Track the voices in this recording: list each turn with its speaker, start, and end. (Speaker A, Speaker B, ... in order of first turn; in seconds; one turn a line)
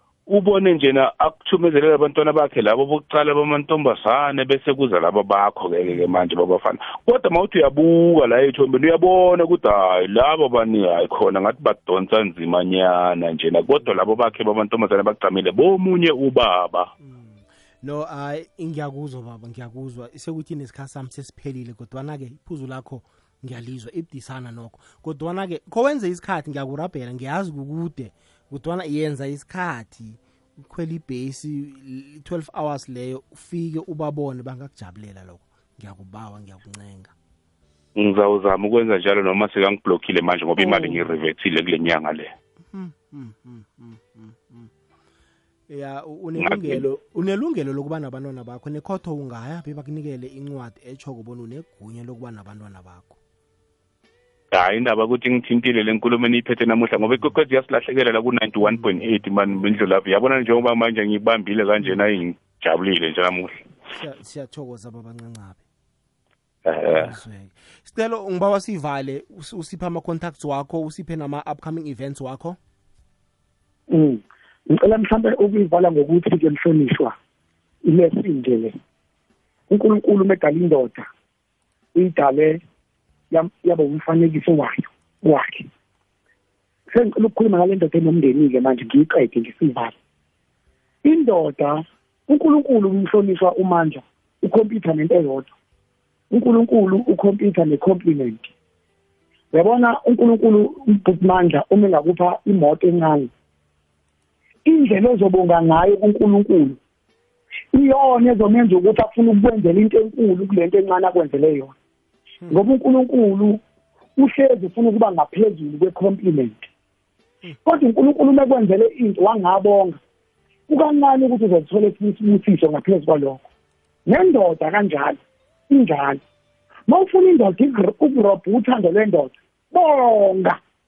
Speaker A: 0.3-16.9
Speaker B: 5.9-6.2
Speaker B: 13.8-14.3
Speaker B: 17.0-37.1
Speaker A: 38.0-42.3
Speaker B: 40.6-41.2
Speaker B: 42.7-44.7
Speaker B: 45.7-53.2
Speaker A: 46.4-46.8
Speaker A: 54.5-63.6
Speaker B: 57.0-57.3
Speaker B: 58.6-60.6
Speaker B: 63.9-65.6
Speaker A: 66.7-67.1
Speaker B: 66.9-72.6
Speaker C: 73.9-77.1
Speaker C: 77.8-78.8
Speaker C: 79.7-81.1
Speaker C: 81.9-82.6
Speaker C: 83.3-85.7
Speaker C: 86.9-89.9
Speaker C: 91.0-95.5
Speaker C: 96.3-98.5
Speaker C: 99.5-103.3
Speaker C: 104.6-106.8
Speaker C: 107.7-111.7
Speaker C: 112.5-113.6
Speaker C: 114.2-116.7
Speaker C: 117.6-120.0
Speaker C: 120.7-123.4
Speaker C: 124.0-126.2
Speaker C: 126.9-130.6